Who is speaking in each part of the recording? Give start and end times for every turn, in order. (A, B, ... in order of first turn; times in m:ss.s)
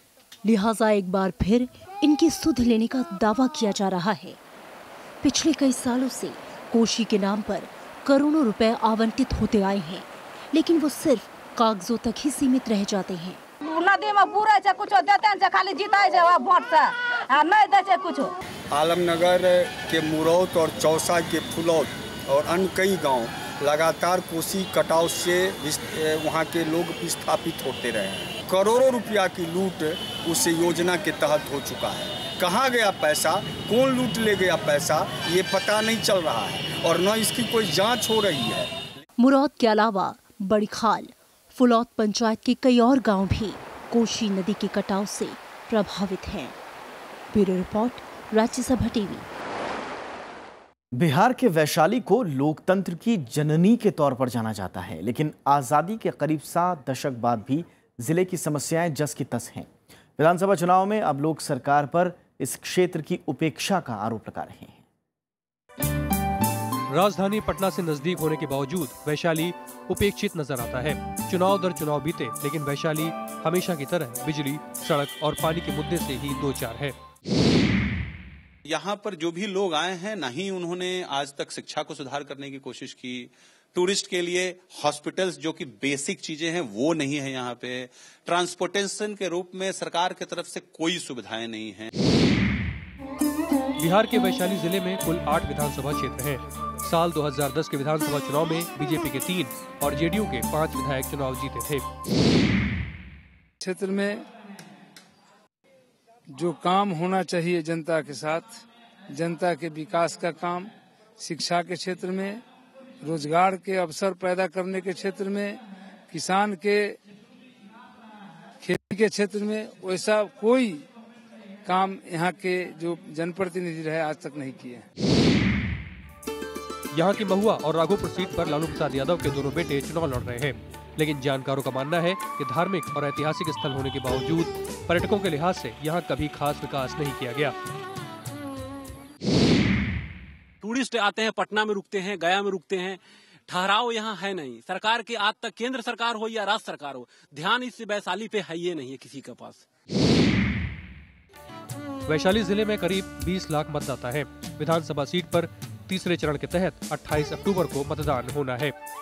0:00.4-0:04.4 A
0:05.2-0:13.4 A
0:13.6-0:18.3 B
0:18.7-0:38.7 C
0:39.2-0:46.6 A
0:47.3-0:49.3 A
0:50.9-1:04.8 D
1:06.9-1:17.0 E
1:18.6-1:31.9 F
1:33.8-1:41.9 E
1:43.6-1:44.2 G
1:46.3-1:52.4 G
1:53.0-1:57.0 G
1:58.6-2:00.8 G
2:01.7-2:04.8 G
2:06.9-2:17.6 E
2:20.6-2:29.6 H
2:32.1-2:38.8 E